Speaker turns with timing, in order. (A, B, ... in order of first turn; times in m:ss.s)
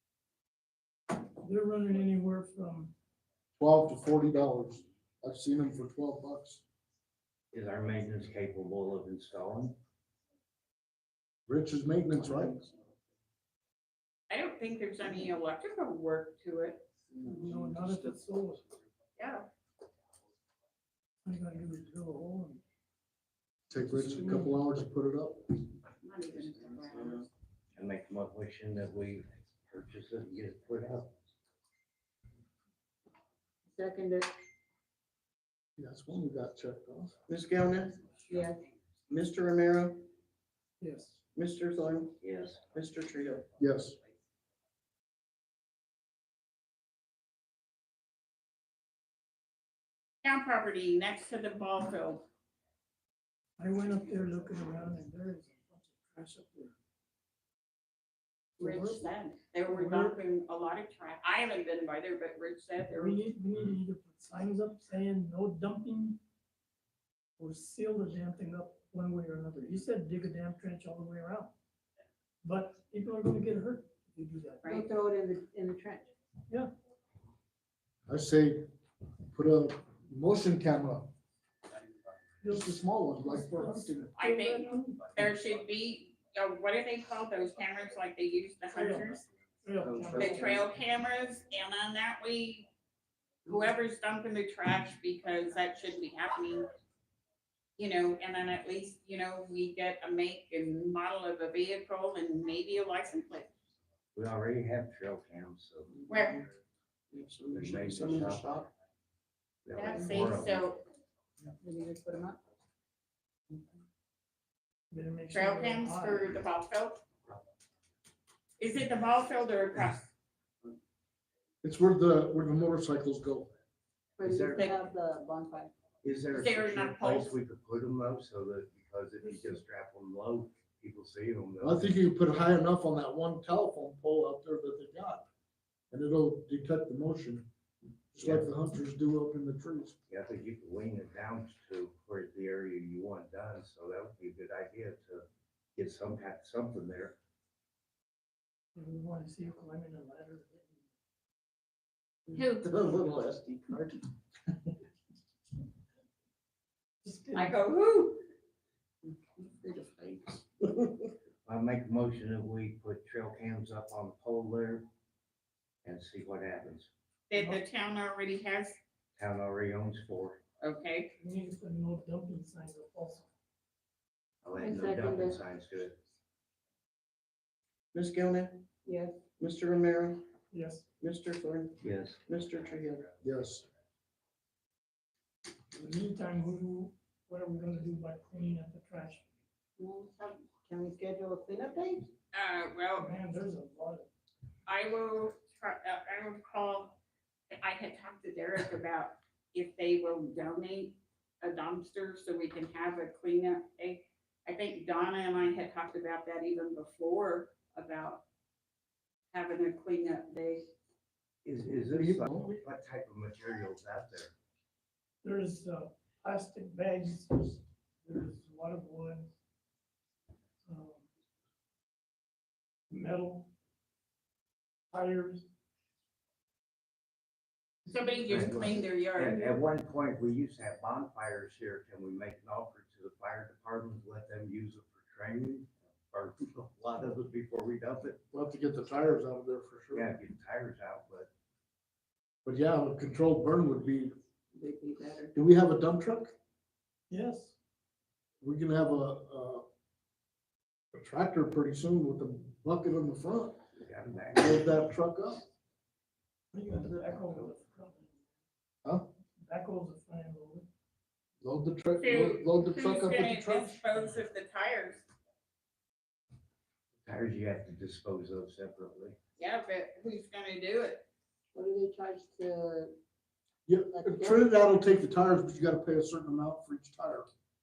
0:01.4-0:02.9 A
0:03.6-0:06.6 B
0:07.5-0:09.8 C
0:11.5-0:12.6 B
0:14.3-0:16.9 D
0:17.4-0:18.7 A
0:19.2-0:19.5 D
0:21.2-0:22.6 A
0:23.7-0:25.4 B
0:26.0-0:27.3 D
0:27.8-0:31.1 C
0:33.7-0:34.3 E
0:35.8-0:37.2 B
0:37.3-0:38.1 F
0:38.3-0:38.6 E
0:39.1-0:40.1 F
0:40.8-0:41.2 A
0:41.3-0:42.2 F
0:42.2-0:42.6 C
0:42.7-0:43.5 F
0:43.6-0:44.0 B
0:50.2-0:52.2 D
0:53.6-0:56.7 A
0:58.6-0:59.0 A
0:58.6-1:03.2 D
0:59.6-1:00.2 A
1:03.0-1:06.2 A
1:07.4-1:11.5 A
1:12.4-1:14.7 A
1:14.6-1:14.9 D
1:14.6-1:16.1 E
1:18.1-1:18.7 B
1:19.3-1:21.1 B
1:22.4-1:25.2 A
1:22.4-1:24.1 B
1:24.2-1:29.2 D
1:28.7-1:30.6 A
1:29.9-1:30.6 F
1:30.1-1:32.7 D
1:33.4-1:36.7 D
1:37.8-1:43.5 D
1:44.1-1:46.0 C
1:46.1-1:46.5 D
1:47.1-1:48.7 F
1:47.5-1:48.6 C
1:49.6-1:50.6 C
1:49.7-1:50.8 D
1:51.6-1:52.4 E
1:54.9-1:56.4 A
1:55.3-1:57.0 D
1:58.6-2:00.1 D
2:01.6-2:03.5 B
2:04.2-2:05.7 E
2:04.2-2:04.7 C
2:06.0-2:12.0 C
2:06.3-2:07.3 D
2:11.6-2:15.2 B
2:15.9-2:17.5 B
2:18.1-2:19.9 B
2:18.2-2:18.4 C
2:20.1-2:27.2 C
2:28.8-2:30.7 A
2:32.3-2:32.6 D
2:32.3-2:34.0 F
2:37.0-2:37.6 A
2:37.3-2:38.2 D
2:39.3-2:40.9 F
2:41.5-2:44.8 C
2:45.8-2:46.9 C
2:47.3-2:48.8 D
2:47.3-2:47.6 A
2:49.2-2:50.4 C
2:50.6-2:51.1 D
2:51.2-2:53.3 A
2:54.4-2:56.0 C
2:54.6-2:55.4 E
2:57.9-3:00.2 F
2:58.8-2:59.3 E
3:00.5-3:00.8 A
3:01.0-3:03.1 F
3:01.8-3:02.3 C
3:03.2-3:03.7 B
3:05.7-3:09.2 A
3:09.8-3:12.1 E
3:12.3-3:13.1 D
3:13.0-3:14.1 A
3:14.7-3:17.0 D
3:17.5-3:28.2 D
3:29.3-3:30.7 D
3:31.4-3:34.3 C
3:31.9-3:32.6 B
3:35.2-3:39.3 A
3:40.7-3:41.0 A
3:42.9-3:43.5 A
3:44.9-3:45.5 A
3:47.8-3:49.6 D
3:48.3-3:58.2 C
3:58.3-4:00.1 B
3:59.9-4:01.3 C
4:02.4-4:04.2 B
4:04.5-4:05.3 E
4:05.3-4:06.3 B
4:07.1-4:07.5 A
4:08.4-4:09.6 B
4:10.9-4:13.6 B
4:13.8-4:14.7 C
4:14.3-4:15.5 B
4:16.5-4:18.2 A
4:19.4-4:20.7 A
4:21.4-4:23.8 B
4:22.0-4:25.0 D
4:27.0-4:29.2 C
4:29.4-4:31.1 D
4:31.5-4:32.9 E
4:33.7-4:37.3 B
4:33.9-4:34.4 E